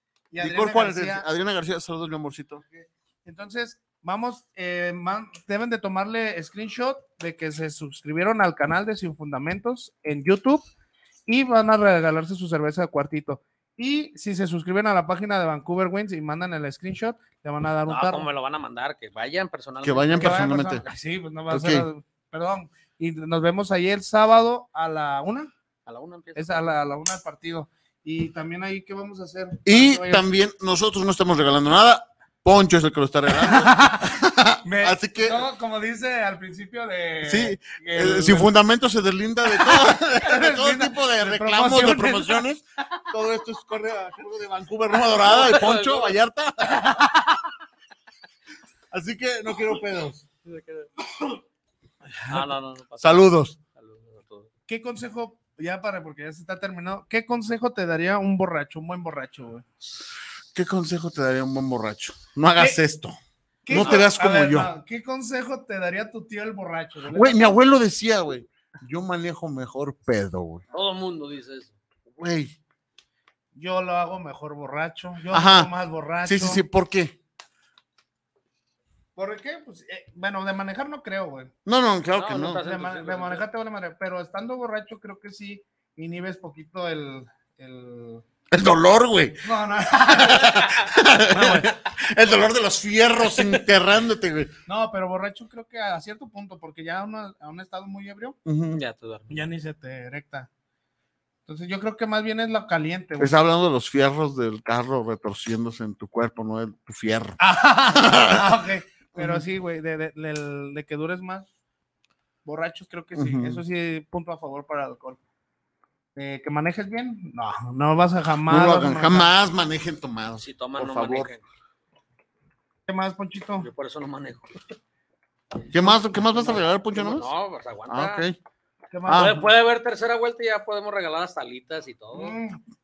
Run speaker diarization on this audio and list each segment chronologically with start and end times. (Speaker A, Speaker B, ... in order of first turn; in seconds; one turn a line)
Speaker A: 0.3-1.3
Speaker B: 0.4-2.6
Speaker A: 2.7-10.7
Speaker A: 11.3-18.3
Speaker C: 17.9-20.4
Speaker B: 19.8-20.8
Speaker A: 20.2-25.5
Speaker B: 21.5-21.9
Speaker C: 25.9-26.6
Speaker A: 26.4-30.2
Speaker B: 29.7-35.4
Speaker A: 33.4-34.1
Speaker A: 34.6-38.5
Speaker B: 37.2-47.1
Speaker A: 39.6-42.4
Speaker C: 45.2-46.2
Speaker A: 46.8-47.1
Speaker B: 48.9-50.2
Speaker C: 50.5-50.9
Speaker A: 52.1-52.5
Speaker C: 52.3-54.5
Speaker B: 53.0-53.6
Speaker A: 54.7-59.6
Speaker B: 60.5-63.2
Speaker A: 63.6-67.6
Speaker B: 63.7-64.7
Speaker B: 67.1-70.6
Speaker C: 70.7-71.8
Speaker B: 72.1-72.6
Speaker A: 73.5-76.6
Speaker B: 75.3-75.7
Speaker B: 76.2-77.2
Speaker A: 79.2-81.5
Speaker B: 81.7-82.6
Speaker C: 82.1-83.4
Speaker A: 82.5-88.2
Speaker B: 88.5-89.5
Speaker A: 89.4-91.7
Speaker B: 90.0-94.5
Speaker C: 93.3-93.6
Speaker A: 94.7-98.4
Speaker B: 98.5-98.8
Speaker C: 98.7-99.4
Speaker A: 99.3-100.5
Speaker A: 101.5-103.3
Speaker B: 103.2-107.4
Speaker A: 107.4-111.5
Speaker B: 107.9-108.5
Speaker B: 109.2-109.4
Speaker A: 112.5-115.2
Speaker B: 113.2-113.6
Speaker A: 116.2-119.3
Speaker B: 118.5-121.3
Speaker C: 120.4-121.4
Speaker A: 122.9-123.7
Speaker C: 123.6-124.6
Speaker B: 125.7-127.3
Speaker A: 125.8-126.0
Speaker C: 126.9-128.2
Speaker B: 127.9-128.4
Speaker A: 128.9-129.5
Speaker B: 129.1-129.3
Speaker C: 129.1-132.4
Speaker A: 132.1-132.6